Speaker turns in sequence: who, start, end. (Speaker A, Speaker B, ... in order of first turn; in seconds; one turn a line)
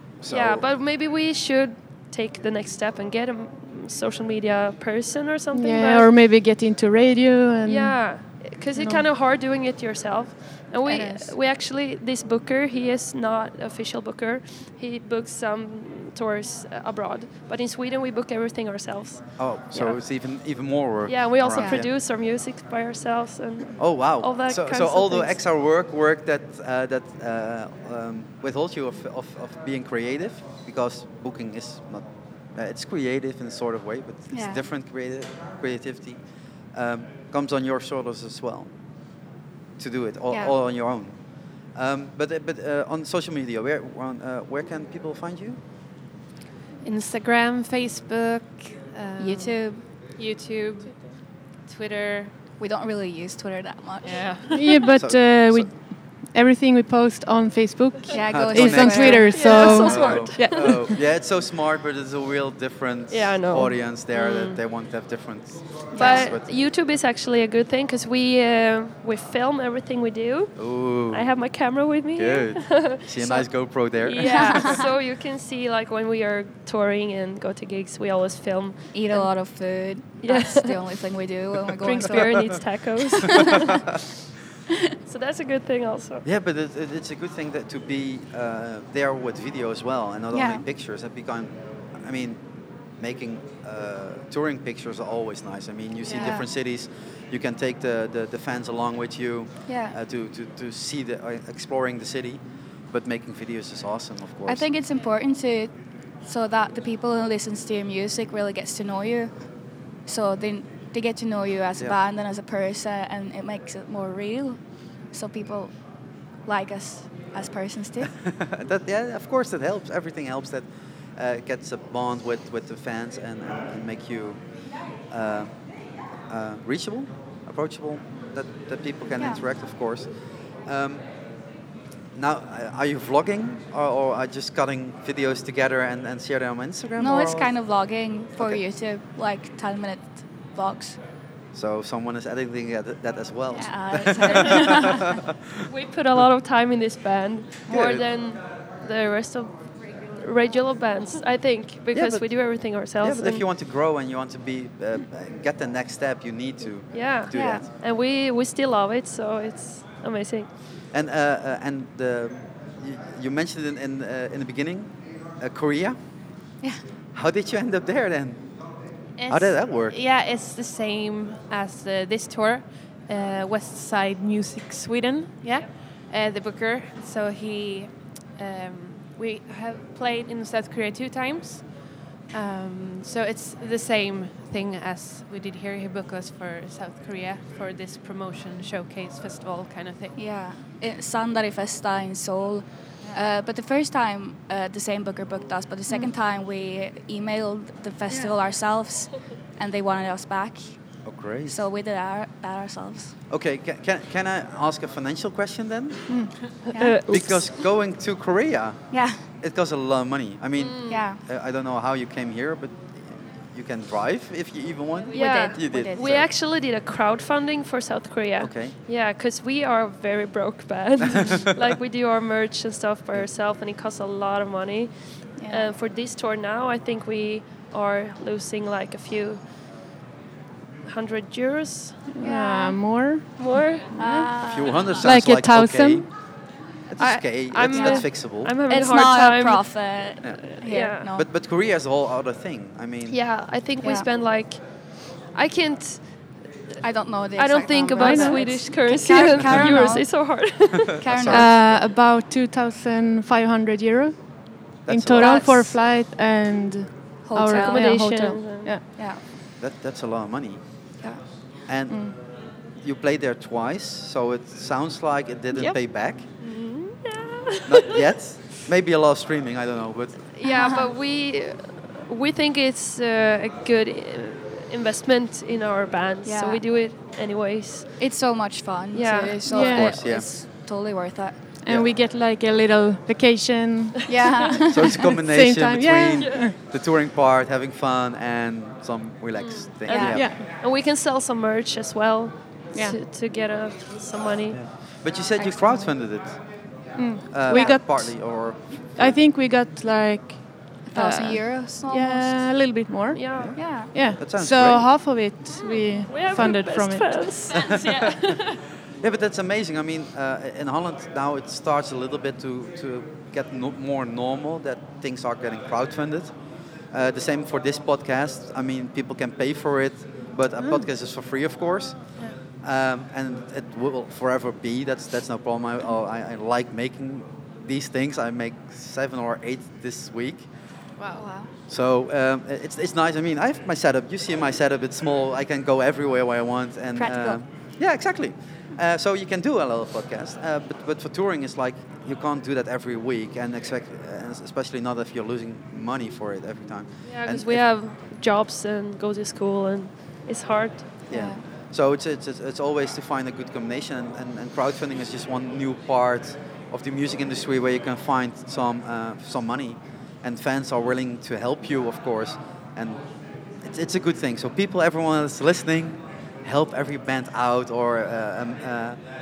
Speaker A: 0.2-0.7
Speaker B: 0.3-6.1
Speaker C: 5.5-8.2
Speaker B: 7.6-20.0
Speaker C: 8.7-9.1
Speaker C: 10.9-11.3
Speaker D: 10.9-11.1
Speaker A: 19.4-21.9
Speaker B: 21.1-25.4
Speaker D: 21.5-21.8
Speaker A: 23.8-36.2
Speaker D: 34.3-34.6
Speaker A: 36.7-38.7
Speaker A: 39.8-41.2
Speaker A: 41.7-45.6
Speaker E: 46.8-52.3
Speaker D: 49.2-49.8
Speaker D: 52.6-54.4
Speaker E: 54.0-54.9
Speaker B: 54.2-54.7
Speaker C: 54.5-61.0
Speaker A: 54.9-55.7
Speaker D: 58.1-59.8
Speaker A: 58.3-66.5
Speaker B: 59.3-60.8
Speaker B: 63.1-64.6
Speaker D: 65.9-66.3
Speaker B: 66.0-79.3
Speaker A: 70.6-71.3
Speaker A: 72.1-74.8
Speaker D: 74.2-74.8
Speaker D: 78.9-83.6
Speaker B: 80.2-80.8
Speaker B: 81.8-83.8
Speaker A: 82.1-82.5
Speaker B: 85.0-86.2
Speaker A: 86.2-92.4
Speaker D: 90.3-90.6
Speaker A: 93.0-104.7
Speaker D: 96.1-96.4
Speaker D: 99.7-100.0
Speaker D: 104.5-105.7
Speaker D: 106.2-109.3
Speaker D: 110.0-114.6
Speaker D: 115.1-115.7
Speaker D: 116.5-118.1
Speaker A: 118.2-124.4
Speaker A: 125.1-125.5
Speaker A: 126.3-130.1
Speaker A: 130.6-131.0
Speaker A: 132.1-137.5
Speaker D: 137.0-141.0
Speaker A: 141.5-145.6
Speaker D: 143.5-145.2
Speaker B: 145.6-149.5
Speaker A: 147.7-148.1
Speaker B: 150.2-153.4
Speaker A: 151.9-152.4
Speaker A: 153.0-157.7
Speaker B: 156.9-160.5
Speaker D: 157.3-157.7
Speaker A: 160.9-166.0
Speaker A: 167.1-168.4
Speaker E: 169.2-190.1
Speaker A: 169.3-170.0
Speaker D: 190.2-200.8
Speaker A: 201.0-201.6
Speaker D: 201.4-203.1
Speaker A: 203.3-206.2
Speaker C: 206.1-206.5
Speaker B: 206.7-207.5
Speaker D: 206.7-207.0
Speaker A: 207.1-208.8
Speaker D: 208.9-209.2
Speaker A: 209.4-216.3
Speaker B: 210.6-211.0
Speaker D: 210.9-211.2
Speaker B: 215.1-229.4
Speaker D: 215.1-216.0
Speaker A: 218.4-218.8
Speaker A: 221.1-221.5
Speaker D: 225.4-225.7
Speaker B: 230.8-232.0
Speaker C: 232.1-234.3
Speaker D: 232.2-232.8
Speaker B: 233.4-233.9
Speaker D: 233.9-235.0
Speaker A: 234.4-236.1
Speaker C: 235.0-236.1
Speaker A: 236.9-238.5
Speaker B: 237.0-239.7
Speaker D: 237.7-238.1
Speaker D: 238.7-241.2
Speaker B: 240.5-241.1
Speaker A: 241.1-243.2
Speaker B: 243.1-246.4
Speaker D: 243.8-244.1
Speaker D: 246.8-251.8
Speaker B: 247.3-251.0
Speaker C: 248.0-248.4
Speaker A: 251.0-251.6
Speaker C: 251.3-258.8
Speaker A: 254.9-255.4
Speaker D: 255.2-255.8
Speaker D: 257.2-257.9
Speaker B: 257.5-258.7
Speaker D: 258.9-259.2
Speaker A: 259.6-260.6
Speaker A: 261.7-262.1
Speaker A: 262.8-266.3
Speaker B: 266.4-268.1
Speaker A: 267.7-270.3
Speaker B: 270.3-278.1
Speaker D: 270.4-270.9
Speaker D: 276.2-276.6
Speaker D: 278.0-281.4
Speaker B: 278.9-279.7
Speaker C: 279.5-280.0
Speaker A: 279.6-280.3
Speaker C: 281.6-286.6
Speaker D: 284.1-285.1
Speaker A: 284.7-290.3
Speaker B: 286.1-286.4
Speaker B: 289.4-294.6
Speaker D: 289.9-290.2
Speaker C: 290.1-290.4
Speaker C: 292.7-293.0
Speaker A: 294.5-296.4
Speaker D: 295.4-295.9
Speaker C: 297.0-298.2
Speaker A: 297.3-299.2
Speaker D: 297.5-297.8
Speaker C: 299.0-307.2
Speaker D: 300.9-302.5
Speaker B: 303.1-303.6
Speaker A: 303.4-304.9
Speaker D: 303.6-303.9
Speaker B: 305.6-308.6
Speaker A: 307.5-308.4
Speaker A: 309.0-316.3
Speaker A: 316.9-322.0
Speaker A: 322.6-330.5
Speaker E: 331.0-331.2
Speaker D: 331.1-331.5
Speaker A: 331.7-347.6
Speaker D: 336.9-337.4
Speaker B: 347.1-350.9
Speaker A: 351.1-363.0
Speaker D: 351.1-351.4
Speaker A: 363.6-369.0